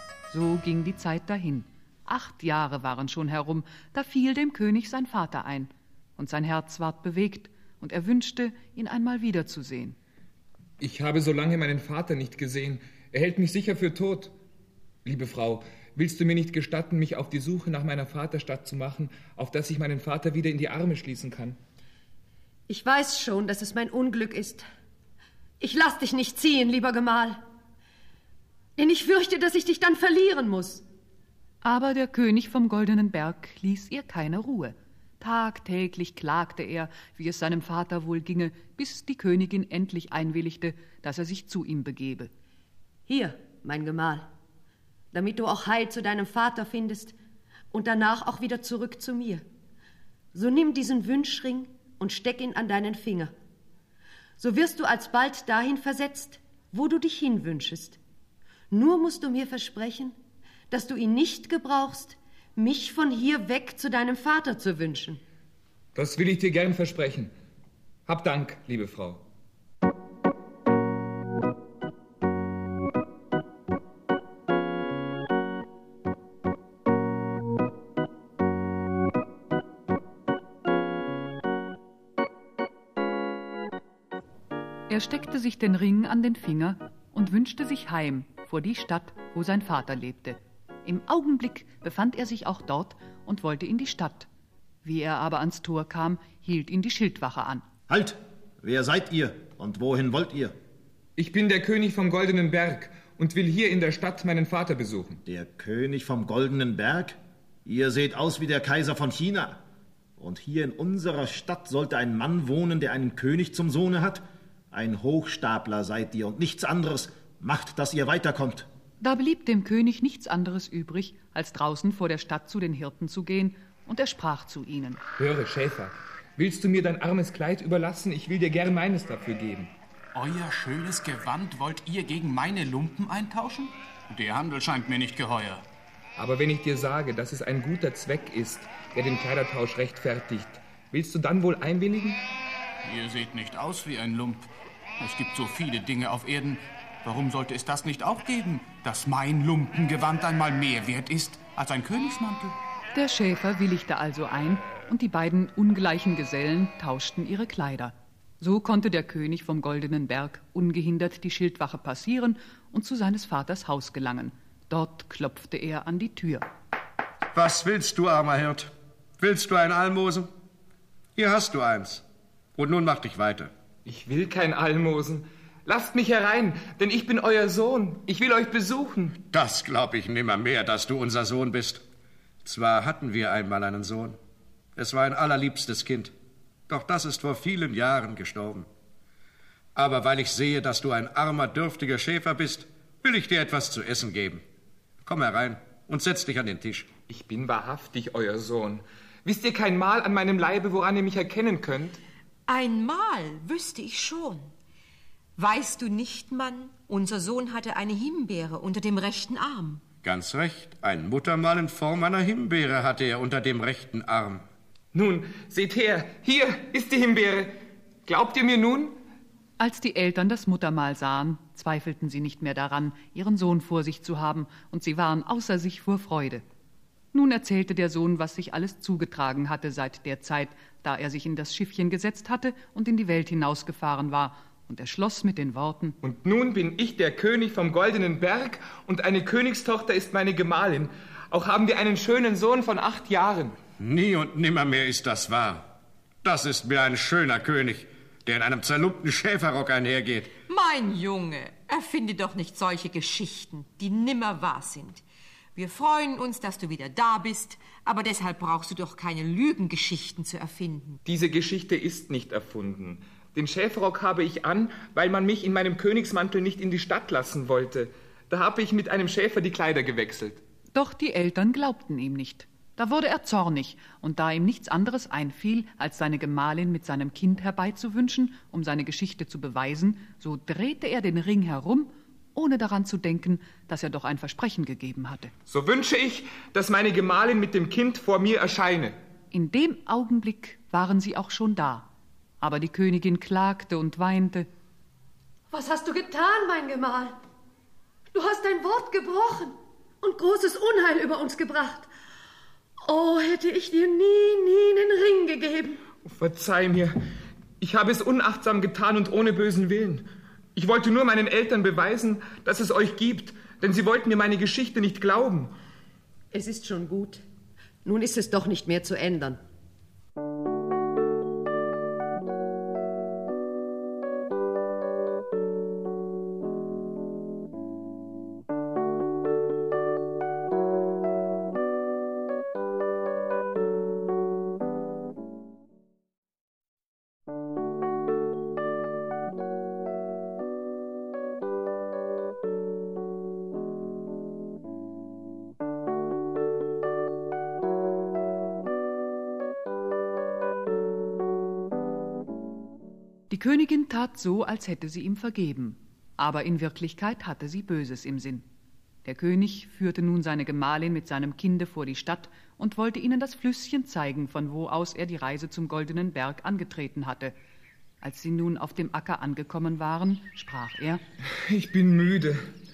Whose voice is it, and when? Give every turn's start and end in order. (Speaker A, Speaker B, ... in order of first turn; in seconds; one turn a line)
Speaker A: 0.3-10.0
Speaker B: 10.8-14.3
Speaker B: 15.0-21.6
Speaker C: 22.7-24.6
Speaker C: 25.6-27.4
Speaker C: 28.8-30.8
Speaker A: 31.6-42.3
Speaker C: 43.1-44.3
Speaker C: 45.1-47.1
Speaker C: 47.7-49.4
Speaker C: 50.3-53.3
Speaker C: 54.4-58.0
Speaker C: 58.7-60.2
Speaker C: 60.7-65.2
Speaker B: 65.9-67.3
Speaker B: 68.1-69.2
Speaker A: 84.9-94.3
Speaker A: 94.8-97.6
Speaker D: 97.9-100.5
Speaker B: 101.2-105.2
Speaker D: 105.2-109.6
Speaker D: 110.2-118.7
Speaker A: 119.0-125.0
Speaker B: 125.2-129.7
Speaker E: 130.1-135.6
Speaker B: 136.2-142.2
Speaker E: 142.8-144.5
Speaker E: 145.0-152.6
Speaker A: 152.9-166.5
Speaker F: 167.3-170.3
Speaker F: 171.2-172.0
Speaker F: 172.6-173.5
Speaker B: 173.8-179.2
Speaker F: 179.3-181.8
Speaker F: 182.4-184.2
Speaker F: 184.8-186.1
Speaker F: 186.7-188.7
Speaker F: 189.8-194.4
Speaker F: 195.0-196.9
Speaker B: 197.1-202.0
Speaker G: 202.5-204.5
Speaker G: 205.4-209.8
Speaker F: 210.0-214.4
Speaker B: 214.9-219.0
Speaker A: 219.6-226.4
Speaker A: 227.1-236.0
Speaker B: 236.0-243.6
Speaker F: 243.8-245.7
Speaker F: 246.2-250.3
Speaker G: 250.5-255.0
Speaker G: 255.5-261.0
Speaker B: 261.0-270.4
Speaker A: 270.7-285.3
Speaker B: 285.5-288.9
Speaker A: 289.3-291.9
Speaker A: 292.4-294.5
Speaker C: 295.5-297.2
Speaker C: 298.1-301.9
Speaker C: 302.8-305.8
Speaker B: 306.0-307.0
Speaker B: 307.6-315.5
Speaker C: 316.3-317.2
Speaker C: 317.8-319.4
Speaker A: 353.3-358.4
Speaker A: 359.0-367.3
Speaker A: 368.0-371.0
Speaker B: 371.4-372.5